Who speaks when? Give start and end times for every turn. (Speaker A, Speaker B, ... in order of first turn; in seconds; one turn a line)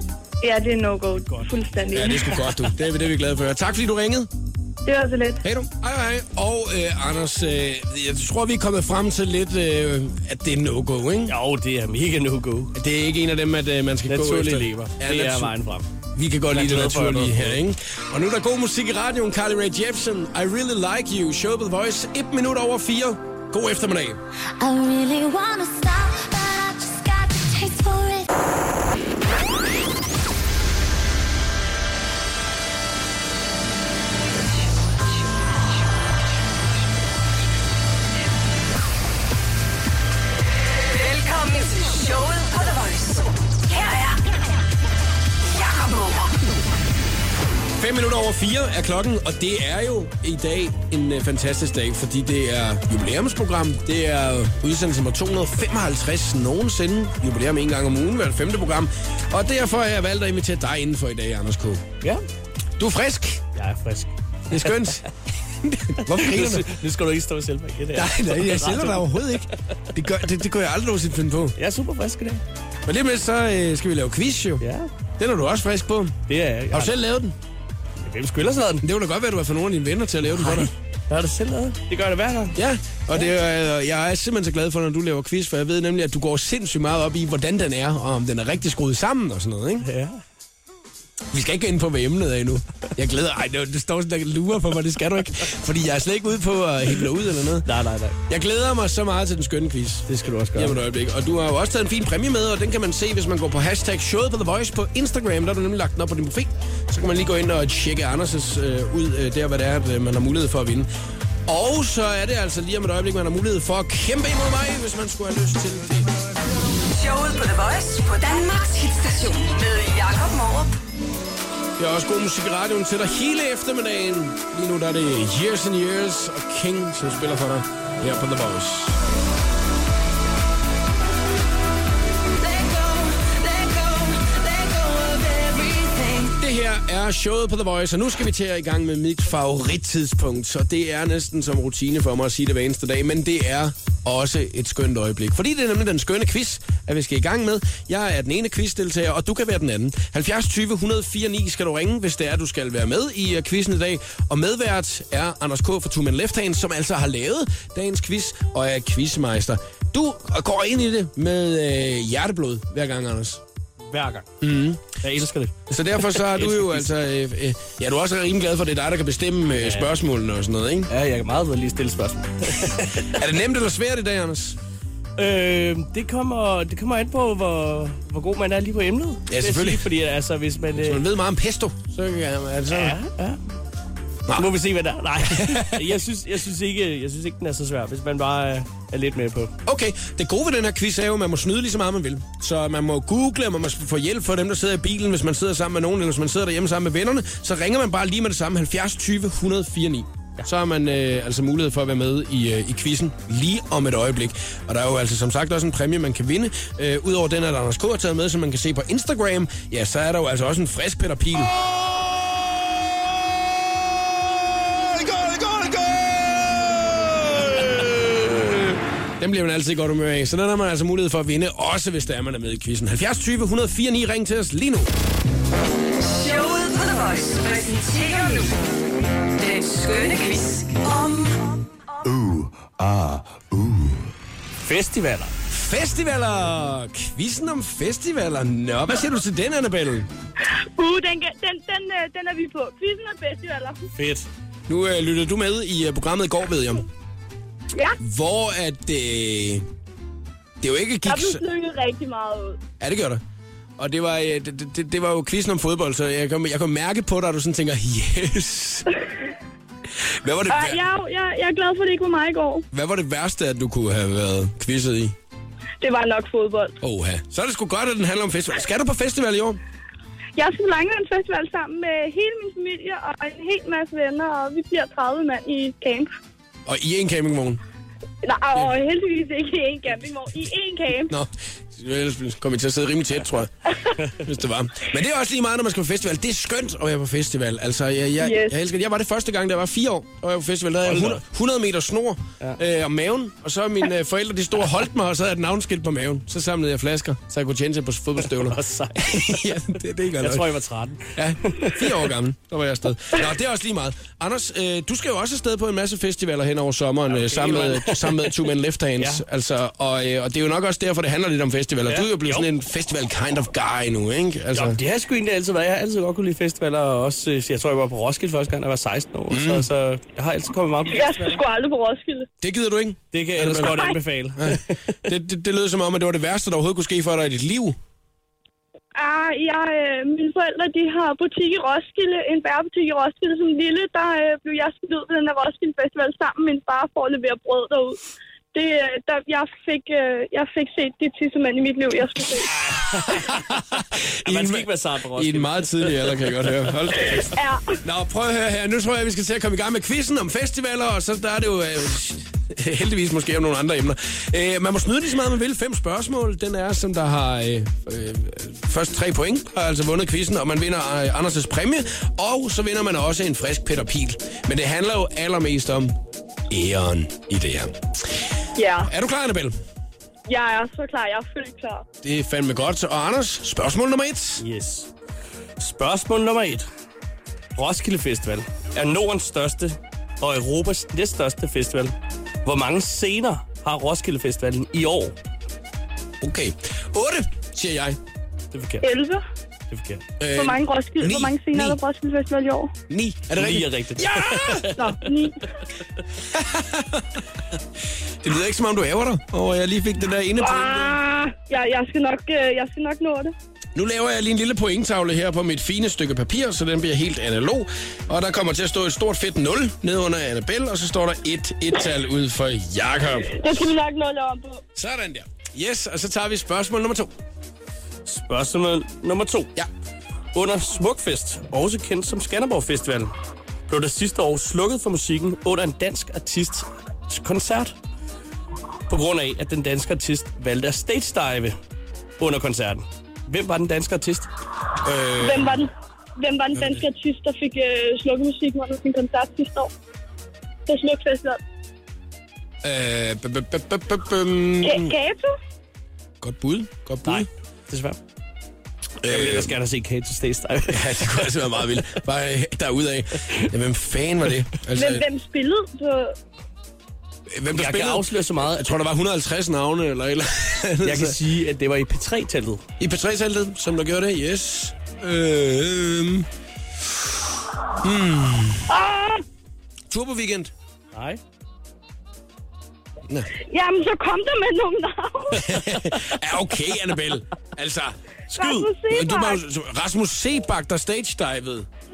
Speaker A: 0.4-2.5
Speaker B: 1.9-4.3
Speaker A: 4.8-5.4
Speaker B: 5.4-11.4
Speaker C: 11.3-12.7
Speaker B: 12.8-15.5
Speaker C: 14.1-15.8
Speaker B: 16.2-24.2
Speaker C: 16.5-17.6
Speaker D: 24.6-28.3
Speaker E: 40.8-44.2
Speaker E: 45.5-46.4
Speaker B: 47.8-61.9
Speaker B: 62.8-63.4
Speaker C: 63.6-65.0
Speaker B: 64.5-65.1
Speaker B: 65.6-66.7
Speaker C: 66.1-69.5
Speaker B: 67.9-71.5
Speaker C: 71.6-72.4
Speaker B: 72.9-74.6
Speaker C: 74.6-74.9
Speaker B: 75.2-76.2
Speaker C: 76.3-77.0
Speaker B: 76.7-77.3
Speaker C: 78.0-78.8
Speaker B: 78.8-80.7
Speaker C: 80.4-82.6
Speaker B: 82.6-89.9
Speaker C: 89.8-90.2
Speaker B: 91.3-97.7
Speaker C: 97.7-98.2
Speaker B: 98.3-110.9
Speaker C: 100.1-100.8
Speaker B: 111.5-116.1
Speaker E: 116.8-120.8
Speaker B: 121.8-129.0
Speaker D: 132.4-136.4
Speaker B: 136.4-163.4
Speaker C: 163.9-164.3
Speaker B: 164.4-165.0
Speaker C: 165.0-165.6
Speaker B: 165.7-170.9
Speaker C: 166.1-166.9
Speaker C: 169.6-169.9
Speaker C: 170.9-173.2
Speaker B: 173.1-174.6
Speaker C: 175.2-181.0
Speaker B: 179.3-179.9
Speaker B: 180.8-183.0
Speaker C: 182.7-183.4
Speaker C: 184.3-189.5
Speaker B: 185.2-185.9
Speaker B: 189.7-224.9
Speaker E: 226.0-228.6
Speaker E: 229.3-231.4
Speaker C: 234.6-235.3
Speaker B: 235.5-240.1
Speaker F: 240.8-243.8
Speaker C: 243.9-244.3
Speaker B: 244.7-246.9
Speaker B: 248.0-249.7
Speaker B: 250.6-251.4
Speaker F: 251.1-252.6
Speaker B: 252.8-253.2
Speaker B: 253.8-258.9
Speaker B: 260.0-260.8
Speaker F: 260.5-262.6
Speaker B: 262.7-265.2
Speaker F: 265.8-266.8
Speaker B: 266.8-269.6
Speaker F: 270.4-276.1
Speaker B: 276.7-277.6
Speaker F: 278.2-281.1
Speaker B: 281.1-300.5
Speaker F: 288.2-288.6
Speaker C: 290.9-291.2
Speaker C: 298.4-299.6
Speaker C: 300.2-302.1
Speaker B: 301.1-314.8
Speaker C: 307.1-308.4
Speaker C: 311.9-312.5
Speaker C: 314.5-321.4
Speaker B: 319.3-319.7
Speaker F: 320.9-322.3
Speaker B: 322.4-327.8
Speaker C: 323.1-324.8
Speaker F: 329.0-338.0
Speaker F: 338.5-342.5
Speaker C: 342.5-343.4
Speaker B: 343.1-347.3
Speaker C: 344.2-347.4
Speaker F: 347.4-347.8
Speaker B: 347.8-365.9
Speaker B: 366.5-368.1
Speaker F: 368.6-368.9
Speaker B: 368.8-369.6
Speaker F: 370.3-371.9
Speaker B: 372.0-374.4
Speaker C: 374.4-374.9
Speaker C: 375.6-376.7
Speaker C: 377.6-381.9
Speaker C: 382.4-385.1
Speaker B: 386.2-388.0
Speaker C: 388.5-388.9
Speaker F: 388.8-389.2
Speaker C: 389.7-390.1
Speaker B: 390.2-391.8
Speaker F: 390.3-392.7
Speaker B: 392.9-395.0
Speaker C: 393.4-395.0
Speaker F: 395.1-395.4
Speaker B: 396.3-397.2
Speaker B: 398.2-401.0
Speaker F: 400.4-403.3
Speaker B: 403.8-413.6
Speaker F: 413.3-414.6
Speaker B: 414.8-417.1
Speaker C: 418.1-419.5
Speaker C: 420.3-423.1
Speaker C: 423.7-427.8
Speaker C: 428.9-431.6
Speaker C: 432.2-434.3
Speaker B: 434.8-435.7
Speaker F: 435.2-439.7
Speaker B: 436.6-436.8
Speaker F: 440.7-441.4
Speaker B: 442.6-444.9
Speaker F: 444.6-445.3
Speaker B: 446.2-447.3
Speaker C: 447.1-448.0
Speaker B: 449.0-449.5
Speaker C: 449.1-451.4
Speaker B: 450.7-455.1
Speaker F: 454.8-456.1
Speaker B: 457.3-461.2
Speaker C: 457.5-458.7
Speaker C: 460.8-462.6
Speaker B: 462.8-466.3
Speaker B: 467.8-468.7
Speaker F: 468.7-469.2
Speaker B: 469.9-470.5
Speaker C: 470.9-471.2
Speaker F: 473.5-475.5
Speaker B: 475.4-478.0
Speaker C: 475.6-476.1
Speaker C: 478.3-478.7
Speaker F: 478.4-479.4
Speaker B: 478.8-481.7